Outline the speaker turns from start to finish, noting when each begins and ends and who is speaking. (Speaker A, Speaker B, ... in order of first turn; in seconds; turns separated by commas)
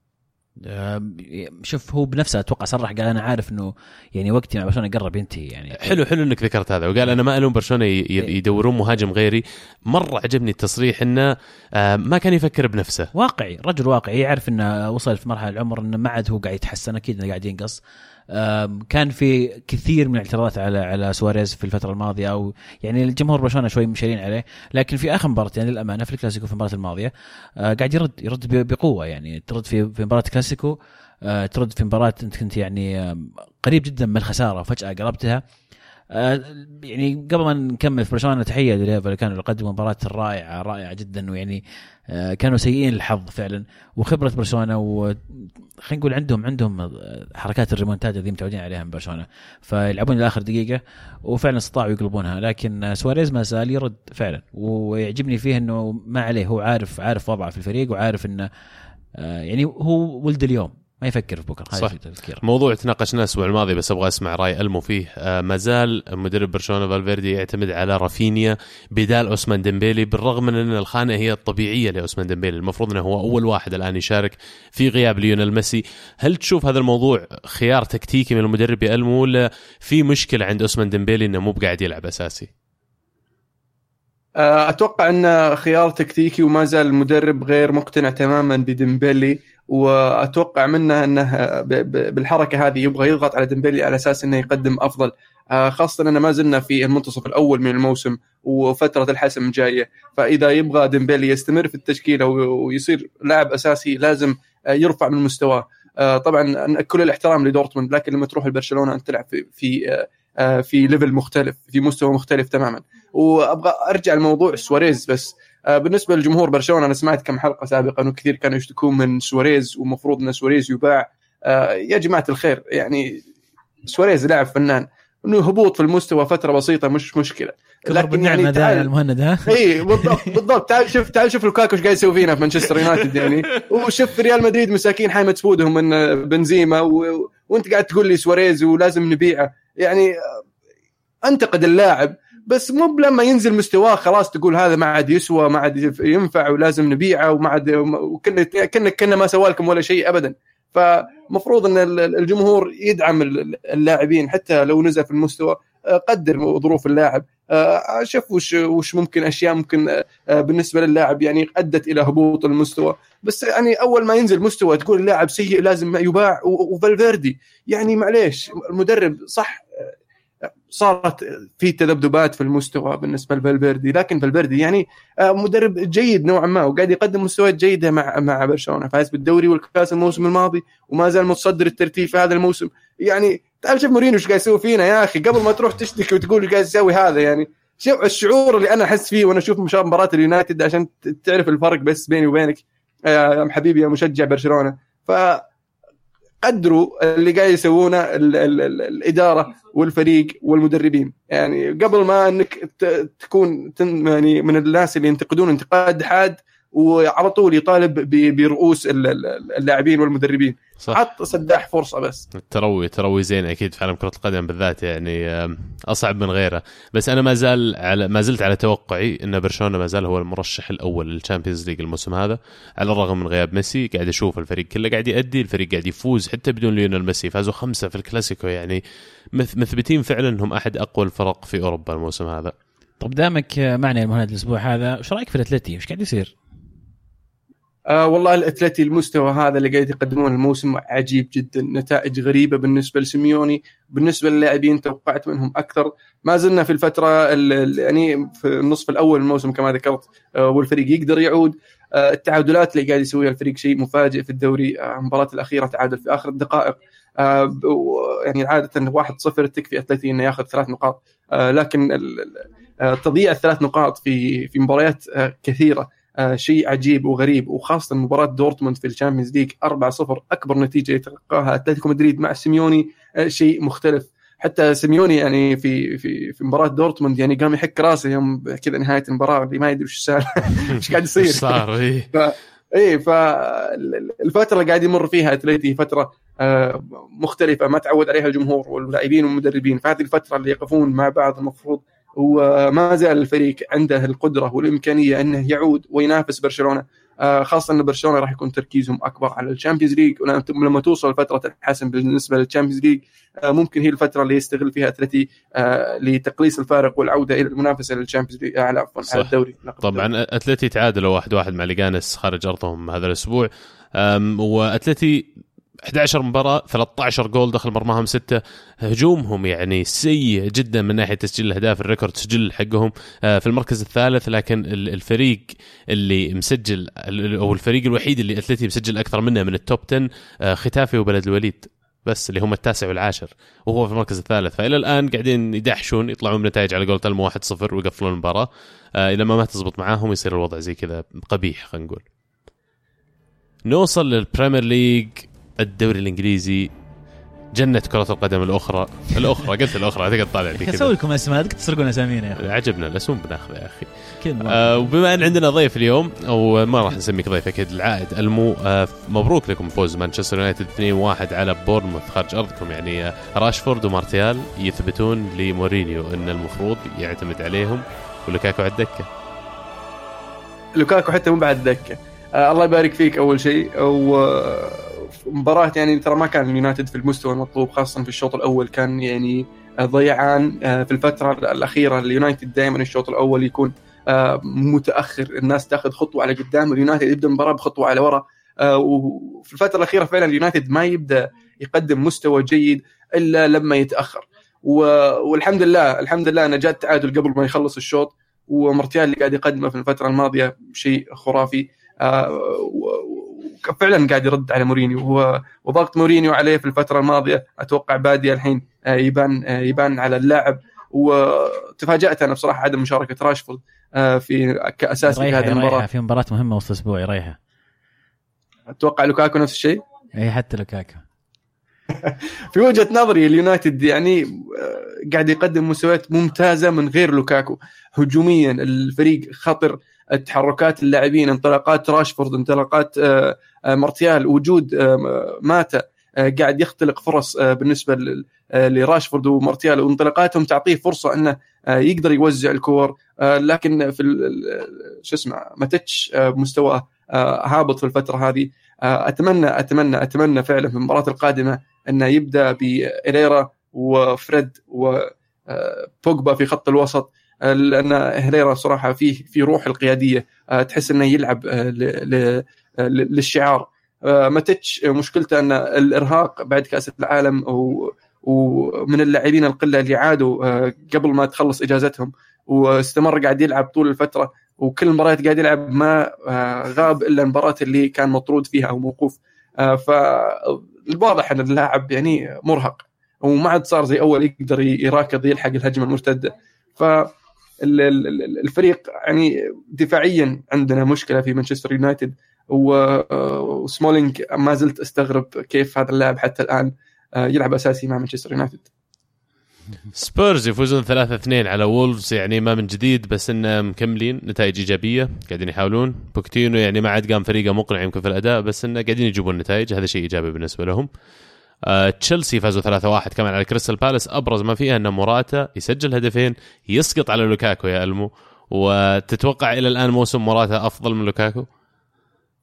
Speaker A: 0.6-6.0, Speaker B: 5.8-13.1, Speaker A: 13.1-35.4, Speaker A: 36.1-58.5, Speaker A: 59.1-62.4, Speaker B: 61.8-82.5, Speaker C: 84.4-123.2, Speaker C: 123.8-128.9, Speaker A: 127.9-130.3, Speaker C: 129.5-140.4, Speaker C: 141.2-169.9, Speaker C: 170.7-195.4, Speaker C: 196.4-212.3, Speaker B: 212.3-228.8, Speaker B: 229.3-232.5, Speaker A: 233.0-236.3, Speaker C: 237.9-310.1, Speaker B: 280.7-282.1, Speaker B: 309.1-315.3, Speaker B: 315.9-342.0, Speaker B: 343.7-346.7, Speaker B: 347.6-350.9, Speaker A: 350.6-352.4, Speaker B: 352.4-353.9, Speaker A: 354.2-354.9, Speaker B: 354.4-369.1, Speaker C: 370.8-415.9, Speaker A: 415.0-417.4, Speaker C: 418.7-419.8, Speaker A: 420.2-421.0, Speaker C: 422.0-498.7, Speaker B: 499.9-510.9, Speaker B: 511.7-521.5